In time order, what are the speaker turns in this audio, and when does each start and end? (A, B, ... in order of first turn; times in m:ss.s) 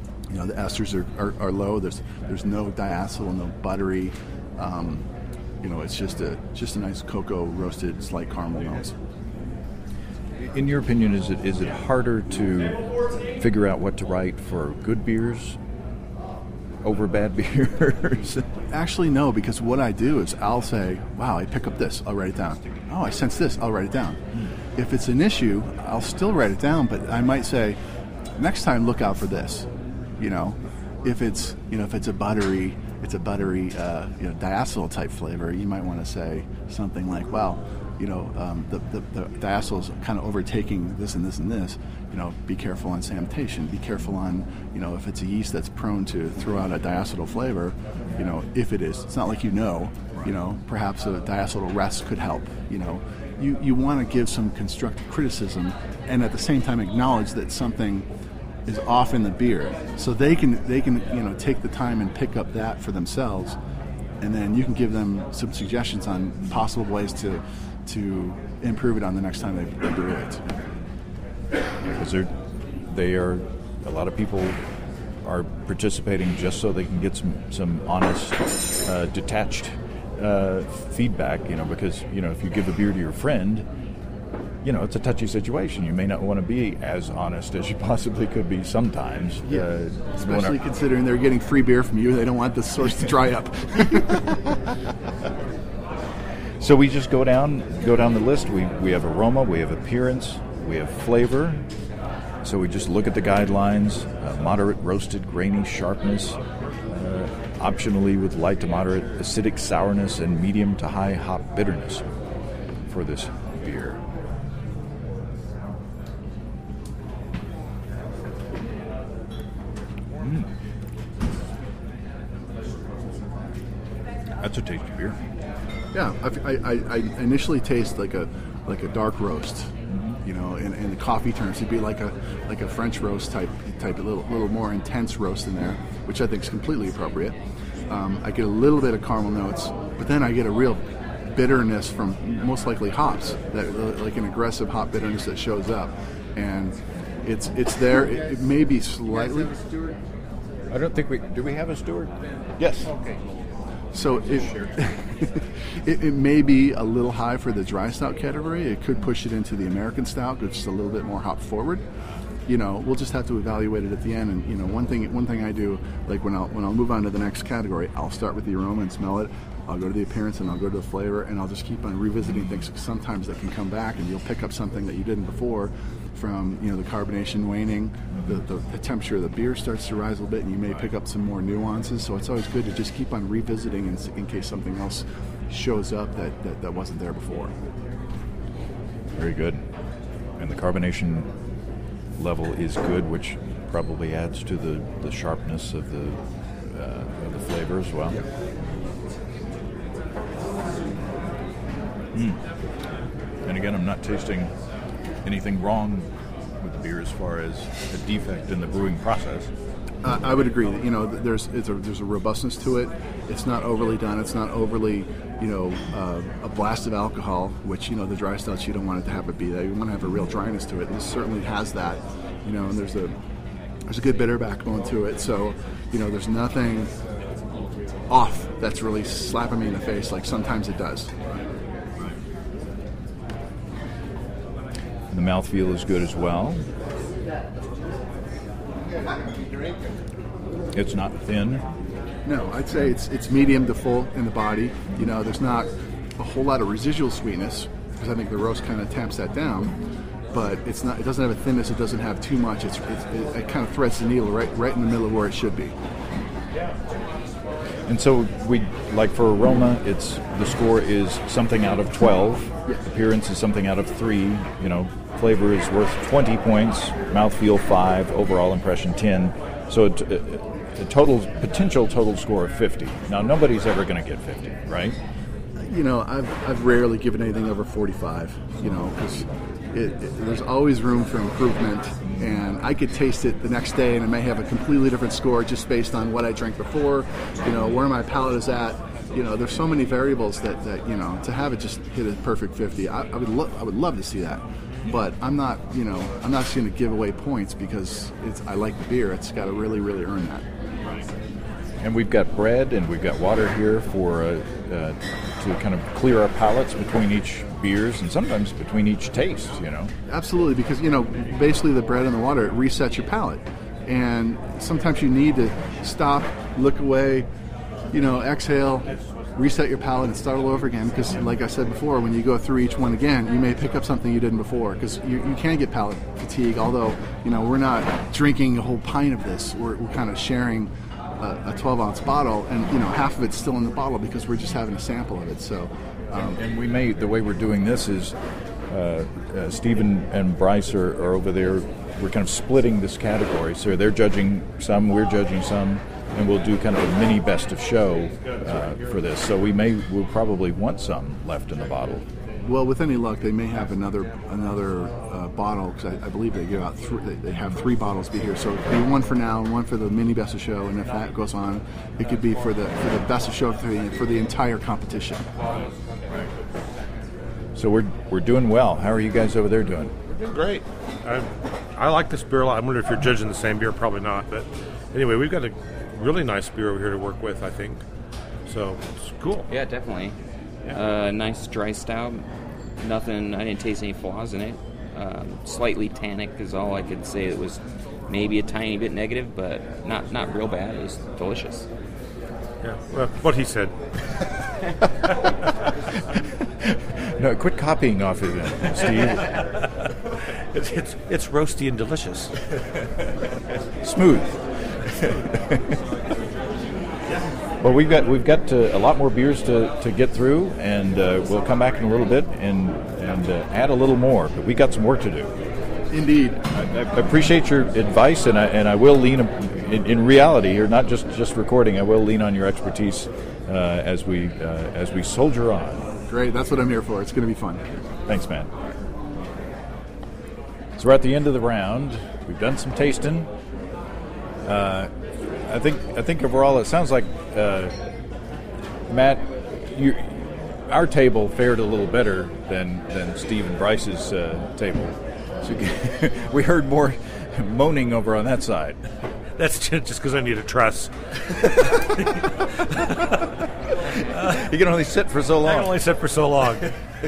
0:00.3-0:05.1 A
0:05.6-0:09.0 A
0:10.5-0:15.6 B
0:16.8-0:18.5 B
0:18.7-0:24.2 A
0:24.8-0:27.8 A
0:28.4-0:29.7 A
0:30.2-0:58.1 A
0:58.7-1:03.6 A
1:04.2-1:10.4 A
1:12.0-1:12.3 B
1:12.8-1:14.6 B
1:15.2-1:23.7 B
1:24.6-1:30.6 B
1:29.4-1:34.4 A
1:36.6-1:41.6 B
1:42.4-1:46.4 B
1:46.9-1:52.0 B
1:52.9-1:54.0 B
2:00.2-2:00.5 B
2:04.4-2:05.2 B
2:05.9-2:29.6 A
2:09.9-2:10.2 B
2:30.7-2:33.0 B
2:33.9-2:41.8 A
2:42.5-3:07.5 A
3:09.2-3:09.6 B
3:10.4-3:11.3 B
3:12.2-3:18.2 B
3:22.1-3:22.4 B
3:23.4-3:24.5 B
3:25.2-3:26.1 B
3:26.6-3:29.5 B
3:30.0-3:43.2 A
3:43.9-3:46.9 A
3:48.1-3:51.1 A
3:55.1-3:56.6 B
4:00.7-4:01.6 B
4:02.2-4:09.8 A
4:10.3-4:15.8 A
4:17.9-4:35.0 B
4:35.6-5:00.5 A
5:01.8-5:09.9 B
5:10.1-5:17.3 A
5:17.9-5:36.4 A
5:36.2-5:38.2 B
5:38.7-5:52.1 B
5:52.4-6:05.5 A
6:07.6-6:10.0 B
6:10.2-6:17.8 C
6:18.5-6:19.5 C
6:19.5-6:20.2 D
6:20.7-6:22.3 D
6:22.8-6:31.7 D
6:32.6-6:33.7 C
6:36.2-6:39.3 B
6:39.2-6:42.3 C
6:43.8-6:45.8 B
6:47.6-6:55.3 B
6:55.9-6:56.4 A
6:56.5-7:05.8 B
7:06.1-7:07.6 A
7:08.1-7:08.5 B
7:10.8-7:13.3 B
7:14.4-7:14.9 B
7:15.5-7:17.7 B
7:18.9-7:28.8 B
7:29.4-7:33.3 C
7:33.9-7:34.4 C
7:34.1-7:35.8 B
7:35.4-7:36.7 C